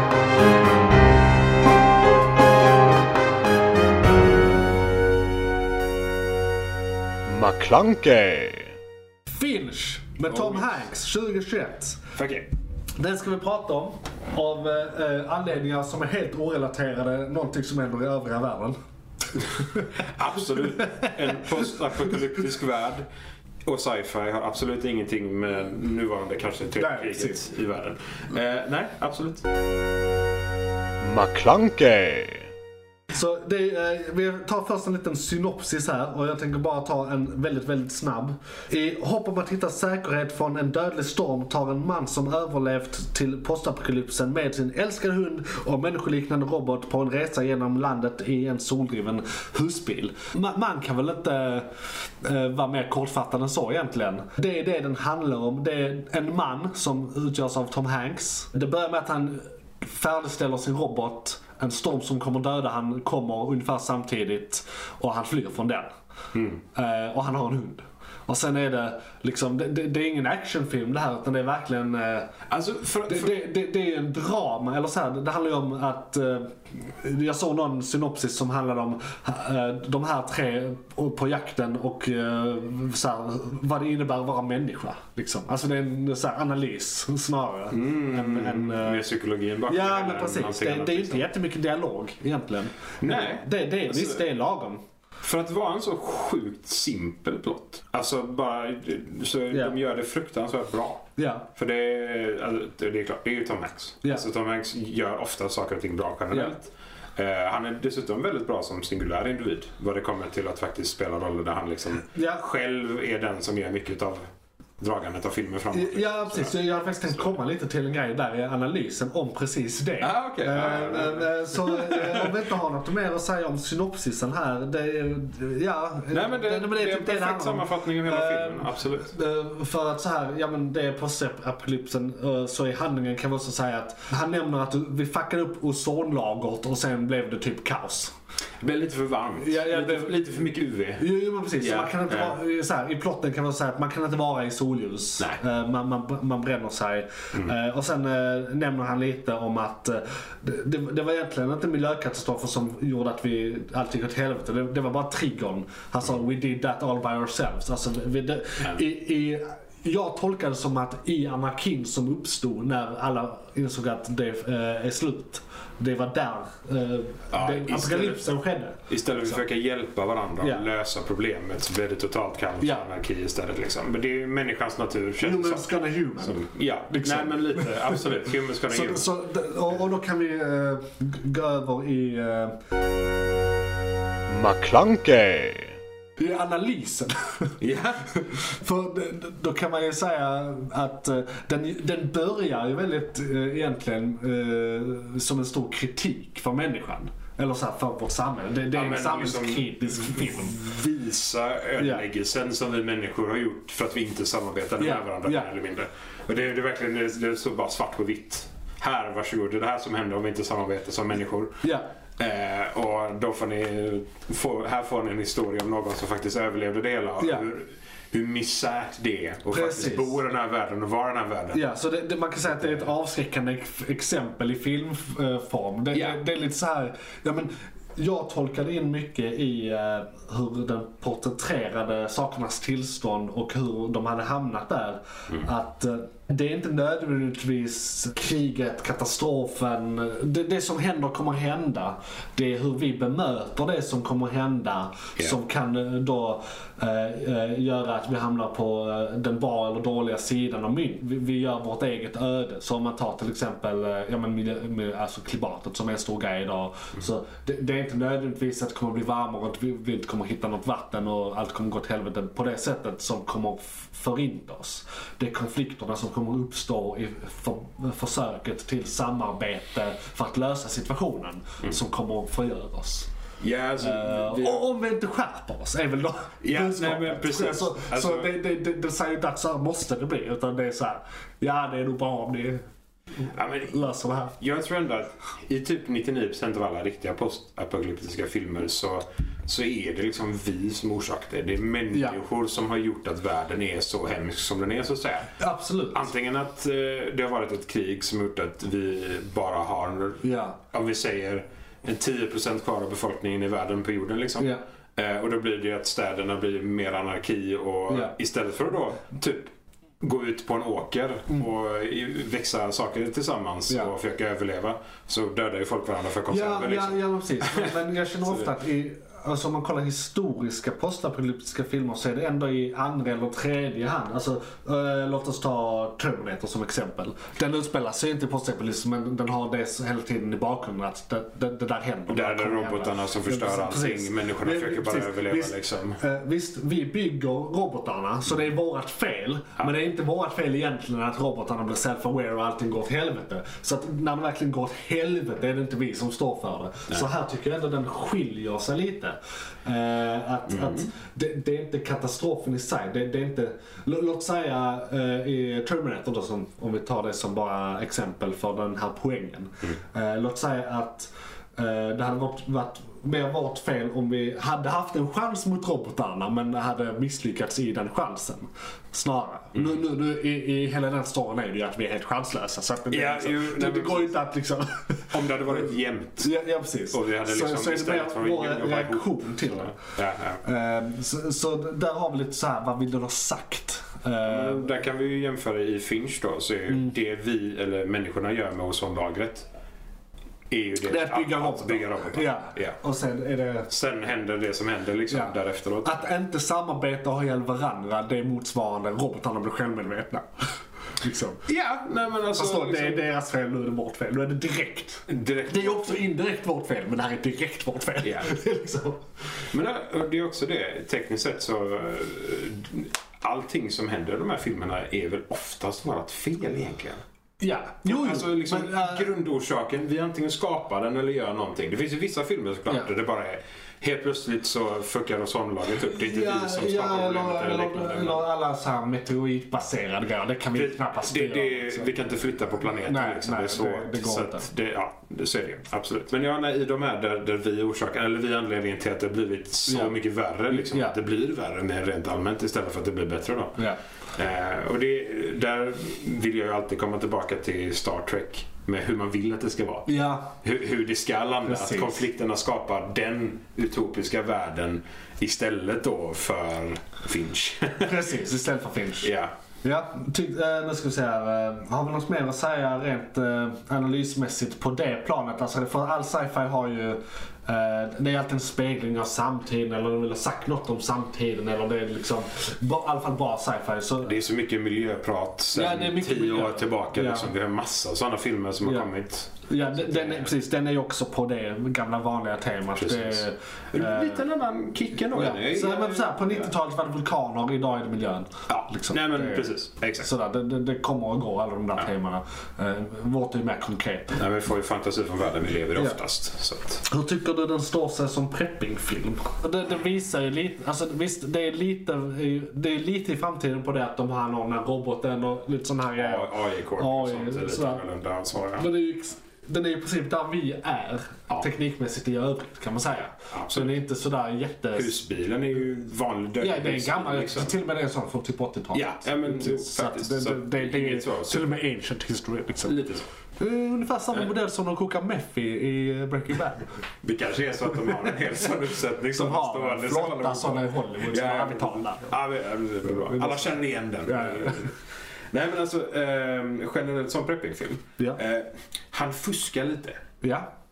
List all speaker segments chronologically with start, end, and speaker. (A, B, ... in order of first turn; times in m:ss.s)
0:07.2-0:08.8 A
0:09.3-0:12.0 B
0:10.3-0:10.8 C
0:12.1-0:12.5 C
0:13.0-0:18.8 B
0:19.4-0:20.0 B
0:20.0-0:23.0 C
0:20.7-0:21.3 B
0:23.6-0:29.4 C
0:26.8-0:27.5 B
0:31.0-0:32.5 A
0:33.1-1:05.9 B
1:06.3-1:06.6 C
1:06.7-1:12.3 B
1:12.5-1:13.4 C
1:13.1-1:29.1 B
1:27.7-1:31.3 C
1:29.7-1:34.8 B
1:33.0-1:34.2 C
1:35.2-1:54.2 C
1:41.2-1:41.5 B
1:52.1-1:52.4 B
1:54.8-1:56.6 C
1:55.7-2:18.1 B
2:00.0-2:02.4 C
2:06.1-2:09.1 C
2:18.6-2:22.4 C
2:19.4-2:20.4 B
2:21.0-2:49.4 B
2:47.3-2:48.3 C
2:48.9-2:59.1 C
2:52.6-2:52.9 B
2:55.2-2:58.0 B
2:58.7-3:02.6 B
3:04.3-3:05.8 A
3:06.2-3:07.6 B
3:07.6-3:08.1 C
3:08.1-3:20.6 B
3:18.7-3:31.6 C
3:21.8-3:22.0 B
3:24.8-3:25.5 B
3:31.6-3:31.9 B
3:32.2-3:41.6 C
3:39.5-3:40.2 B
3:41.5-4:33.1 B
3:42.6-3:42.8 C
3:45.9-3:46.2 C
4:33.4-4:34.6 C
4:33.8-4:42.6 B
4:36.4-4:38.3 C
4:43.2-4:44.4 B
4:43.3-4:55.4 C
4:55.4-4:56.1 B
4:55.9-5:18.5 C
5:00.2-5:00.6 B
5:07.9-5:08.1 B
5:16.3-6:15.1 B
5:32.1-5:36.0 C
5:50.5-5:50.9 C
6:12.9-6:14.1 C
6:15.1-6:16.3 C
6:16.2-6:19.8 B
6:16.9-6:20.4 C
6:20.4-6:24.6 B
6:24.2-6:29.5 C
6:30.5-6:32.8 C
6:30.8-6:33.7 B
6:33.7-6:36.0 C
6:35.1-6:40.2 B
6:41.0-6:41.4 B
6:41.4-6:43.1 C
6:42.3-6:49.0 B
6:45.1-6:46.1 C
6:48.0-6:48.3 C
6:49.5-6:57.0 C
6:57.4-6:59.1 B
6:57.8-7:08.2 C
7:05.8-7:11.9 B
7:10.5-7:38.1 C
7:12.8-7:14.5 B
7:19.7-7:19.9 B
7:20.5-7:21.0 B
7:29.9-7:30.4 B
7:31.4-7:32.0 B
7:37.8-7:39.1 B
7:39.0-7:39.3 C
7:39.6-7:54.1 B
7:54.0-8:00.3 C
7:55.5-7:57.3 B
7:58.6-7:58.9 B
7:59.5-8:04.2 B
8:02.8-8:06.5 C
8:05.1-8:09.5 B
8:08.5-8:10.1 C
8:10.0-8:14.2 B
8:14.2-8:16.8 C
8:16.8-8:27.8 B
8:26.0-8:28.7 C
8:28.6-8:34.9 B
8:33.3-8:33.8 C
8:34.8-8:37.6 C
8:36.4-8:42.8 B
8:38.7-8:41.5 C
8:42.6-8:43.0 C
8:43.4-8:46.6 B
8:47.0-8:54.8 C
8:49.1-8:52.1 B
8:52.9-8:54.7 B
8:55.3-9:00.0 C
9:00.2-9:00.5 B